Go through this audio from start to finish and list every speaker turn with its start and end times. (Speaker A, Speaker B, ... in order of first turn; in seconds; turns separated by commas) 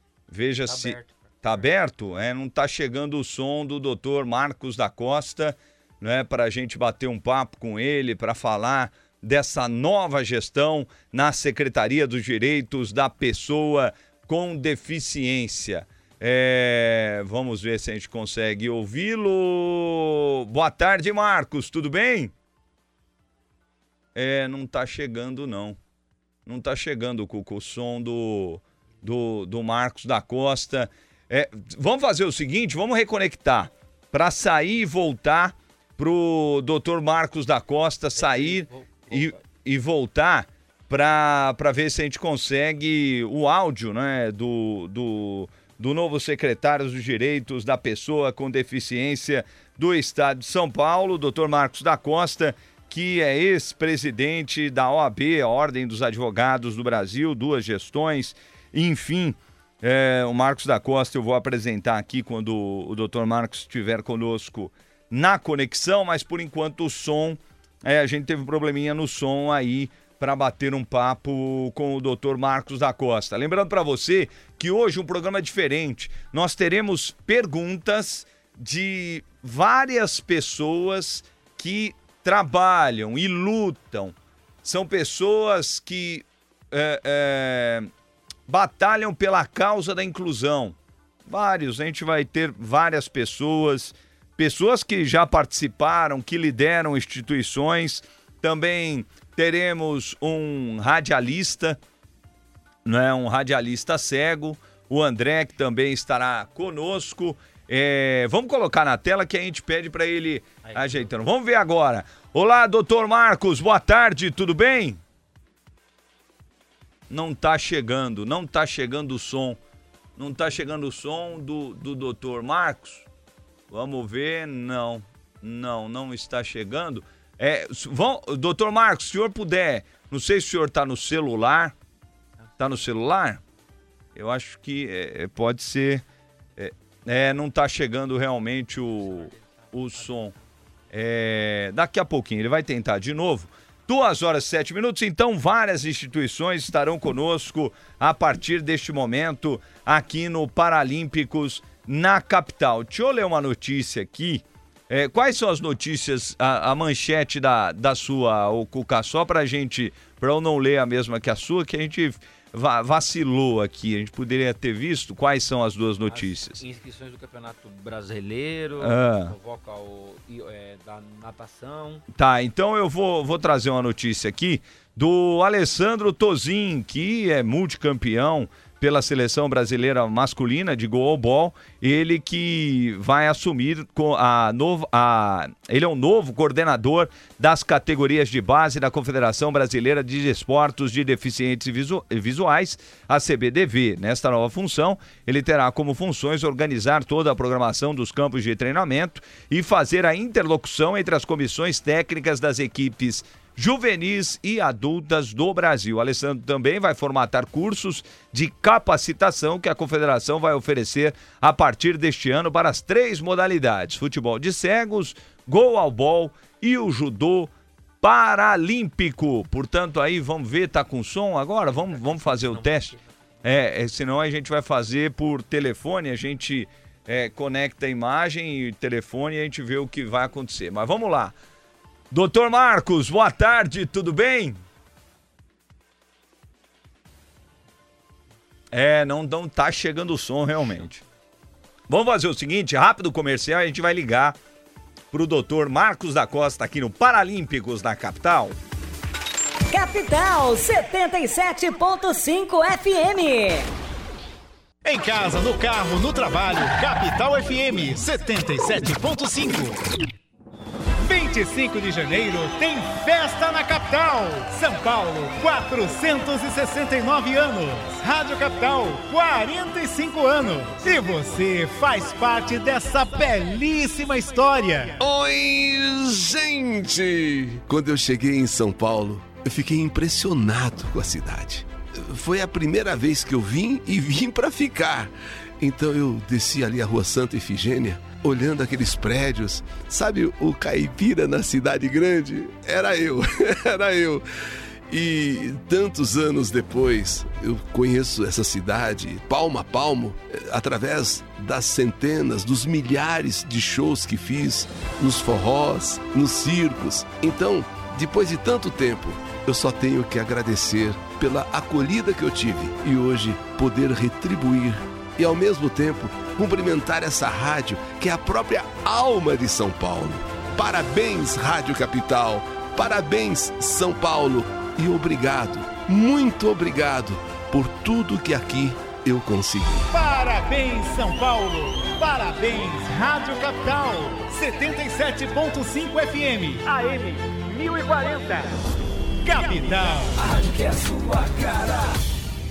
Speaker A: 0.3-22.3, Speaker B: 0.7-1.7, Speaker A: 24.1-25.8, Speaker A: 26.5-87.9, Speaker B: 38.2-39.4, Speaker A: 88.5-90.8, Speaker A: 91.3-101.8, Speaker A: 102.8-115.0, Speaker B: 110.7-111.1, Speaker A: 117.1-119.6, Speaker A: 120.2-123.1, Speaker A: 123.7-131.7, Speaker A: 132.6-133.4, Speaker A: 134.2-136.0, Speaker A: 136.6-140.3, Speaker B: 139.0-140.3, Speaker A: 140.9-166.6, Speaker B: 166.1-172.0, Speaker A: 168.8-169.3, Speaker A: 172.1-231.3, Speaker B: 221.7-223.0, Speaker A: 232.1-234.6, Speaker A: 238.7-241.0, Speaker A: 241.9-244.4, Speaker A: 245.1-248.6, Speaker C: 249.7-253.7, Speaker D: 254.8-259.8, Speaker D: 261.0-275.0, Speaker E: 275.0-294.2, Speaker E: 294.9-329.9, Speaker D: 329.9-338.5, Speaker D: 339.2-340.2